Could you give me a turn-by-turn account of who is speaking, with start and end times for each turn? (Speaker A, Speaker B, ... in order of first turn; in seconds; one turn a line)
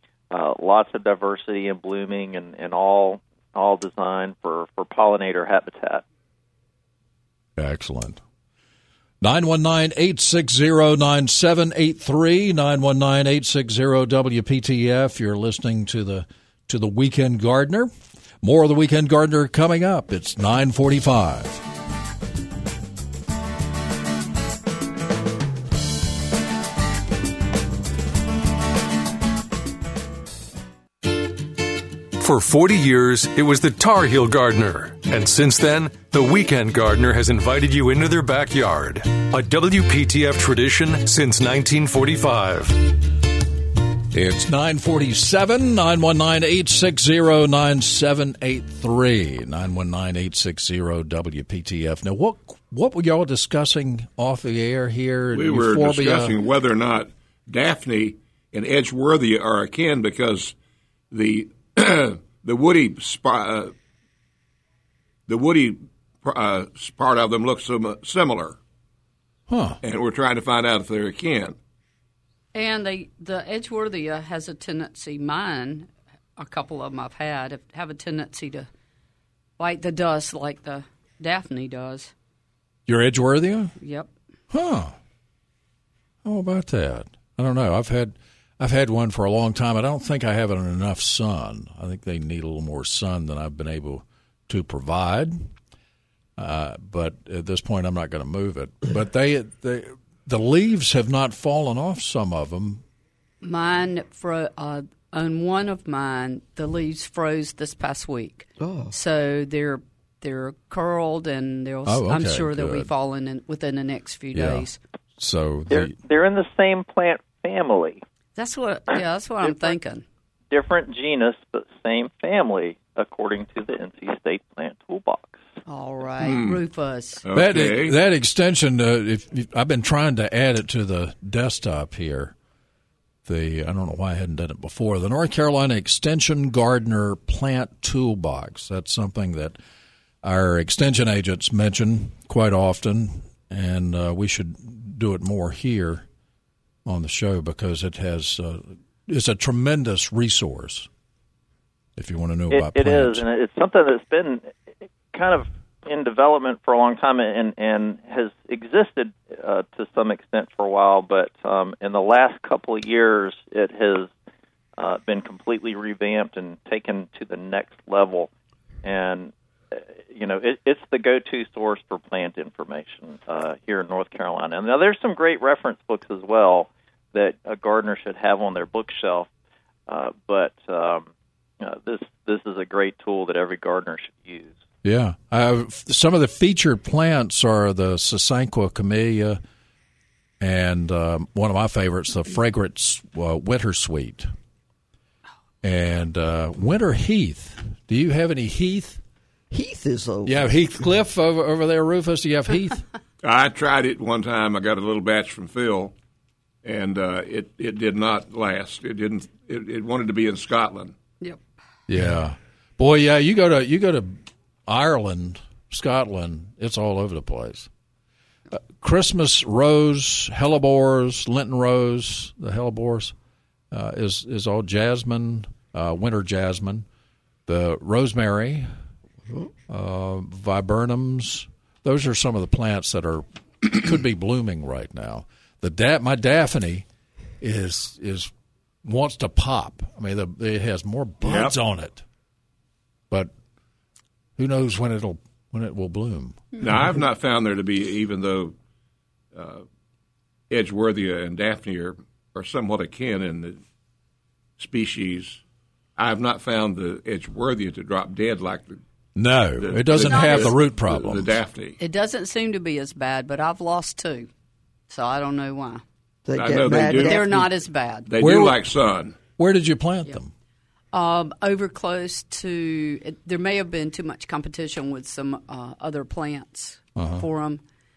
Speaker A: 0.3-6.0
Speaker B: 7.6-8.2
Speaker B: 9.2-21.6
Speaker C: 32.2-42.8
Speaker B: 44.1-56.4
Speaker D: 55.3-60.5
Speaker D: 61.1-63.7
Speaker D: 65.3-68.6
Speaker B: 69.5-69.8
Speaker D: 69.8-71.5
Speaker E: 72.5-78.7
Speaker E: 79.6-82.1
Speaker B: 82.9-83.7
Speaker E: 83.8-84.1
Speaker B: 84.5-84.9
Speaker B: 86.2-95.5
Speaker B: 96.4-102.8
Speaker E: 103.4-114.8
Speaker F: 108.6-108.9
Speaker B: 111.8-112.9
Speaker B: 114.3-114.7
Speaker B: 115.2-115.9
Speaker A: 115.7-118.0
Speaker E: 118.3-120.0
Speaker A: 119.5-119.7
Speaker A: 120.5-125.4
Speaker E: 125.7-127.2
Speaker D: 126.2-126.6
Speaker D: 127.2-127.9
Speaker B: 127.3-132.3
Speaker B: 133.2-139.6
Speaker B: 140.2-146.1
Speaker B: 146.8-150.9
Speaker B: 151.9-153.2
Speaker A: 152.5-154.5
Speaker A: 155.1-164.1
Speaker A: 164.8-168.3
Speaker A: 168.8-179.3
Speaker A: 179.9-181.1
Speaker A: 181.6-184.6
Speaker B: 184.8-189.4
Speaker B: 190.4-194.3
Speaker B: 195.6-199.0
Speaker F: 199.5-200.5
Speaker B: 200.2-202.8
Speaker D: 203.2-205.9
Speaker D: 206.6-210.9
Speaker B: 211.9-217.7
Speaker B: 218.5-223.1
Speaker B: 223.7-226.8
Speaker B: 227.5-228.7
Speaker B: 229.7-236.8
Speaker B: 237.4-238.3
Speaker B: 238.8-242.0
Speaker D: 241.2-241.5
Speaker B: 244.4-246.5
Speaker D: 246.6-248.5
Speaker D: 249.3-249.6
Speaker D: 250.5-253.6
Speaker D: 254.6-255.4
Speaker D: 255.9-258.8
Speaker B: 259.1-261.4
Speaker D: 259.6-261.8
Speaker E: 260.0-260.5
Speaker E: 261.8-264.3
Speaker E: 264.9-265.8
Speaker F: 266.2-267.4
Speaker D: 266.3-267.4
Speaker E: 266.9-268.1
Speaker D: 268.1-269.1
Speaker B: 268.2-268.6
Speaker B: 269.4-270.3
Speaker E: 270.9-277.6
Speaker B: 276.9-277.2